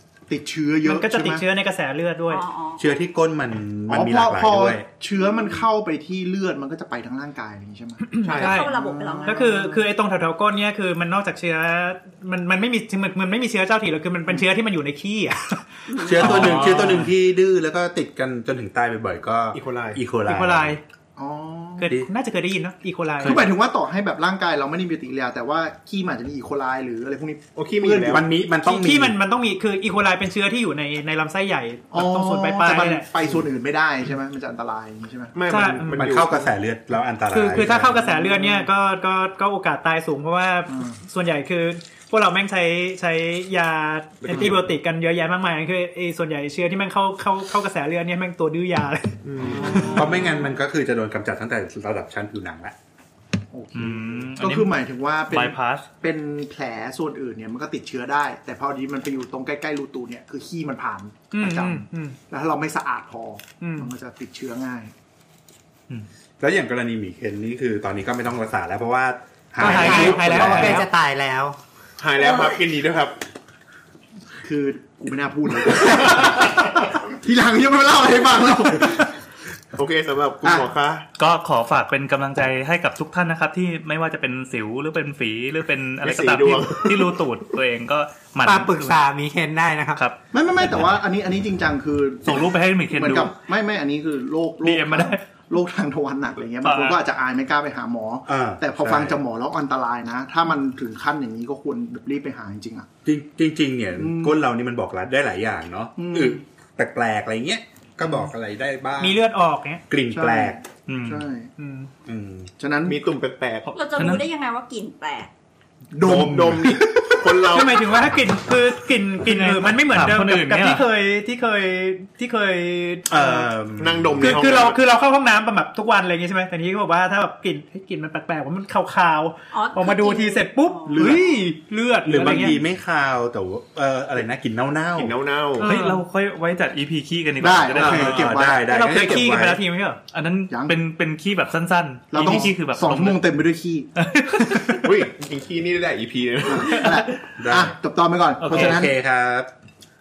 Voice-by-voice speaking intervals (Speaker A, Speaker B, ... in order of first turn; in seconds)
Speaker A: 0.3-1.4, 3.9-9.5, 21.2-21.9, 23.2-28.2, 31.9-35.4, 37.6-38.7, 53.5-64.9, 74.4-79.1, 90.3-102.9, 104.0-104.4, 106.0-106.4, 110.1-111.5, 112.6-113.0, 115.9-117.2, 130.9-131.3, 137.4-138.7, 140.5-140.8, 142.1-143.9, 146.4-148.9
Speaker B: 0.8-2.4, 8.2-8.7, 9.2-15.7, 20.2-20.8, 21.8-23.5, 28.6-33.1, 35.5-36.0, 37.3-49.9, 61.3-62.2, 63.6-63.9, 69.6-70.9, 109.0-109.8, 111.6-111.9, 117.5-123.5, 124.2-132.6, 135.6-136.0, 138.7-140.0
Speaker C: 2.3-2.8, 8.6-9.4, 15.9-16.3, 113.7-115.3, 129.5-131.2
Speaker D: 2.8-4.8, 16.0-20.8, 28.1-29.2, 36.0-38.0, 49.8-52.7, 66.4-70.8, 98.3-99.2, 103.0-109.2, 109.9-110.6, 112.0-112.5, 116.1-116.7, 123.1-124.5, 132.0-135.1, 137.8-139.6, 147.4-147.7, 148.5-149.5
Speaker E: 8.2-8.6, 19.5-20.0, 27.6-28.2, 35.3-36.5, 44.2-44.6, 49.2-49.9, 72.0-73.2, 79.8-81.0, 86.0-87.2, 112.8-113.7, 116.0-117.9, 123.8-124.8, 134.9-135.7, 144.8-146.8
Speaker F: 16.2-17.1, 53.7-54.7, 55.3-55.9, 81.2-89.0, 92.2-93.3, 94.6-95.2, 96.6-97.0, 110.9-111.2, 113.7-114.2, 119.2-120.8, 135.6-138.2, 140.1-143.2, 144.1-144.8, 148.4-148.8
Speaker G: 69.6-71.6, 88.4-90.1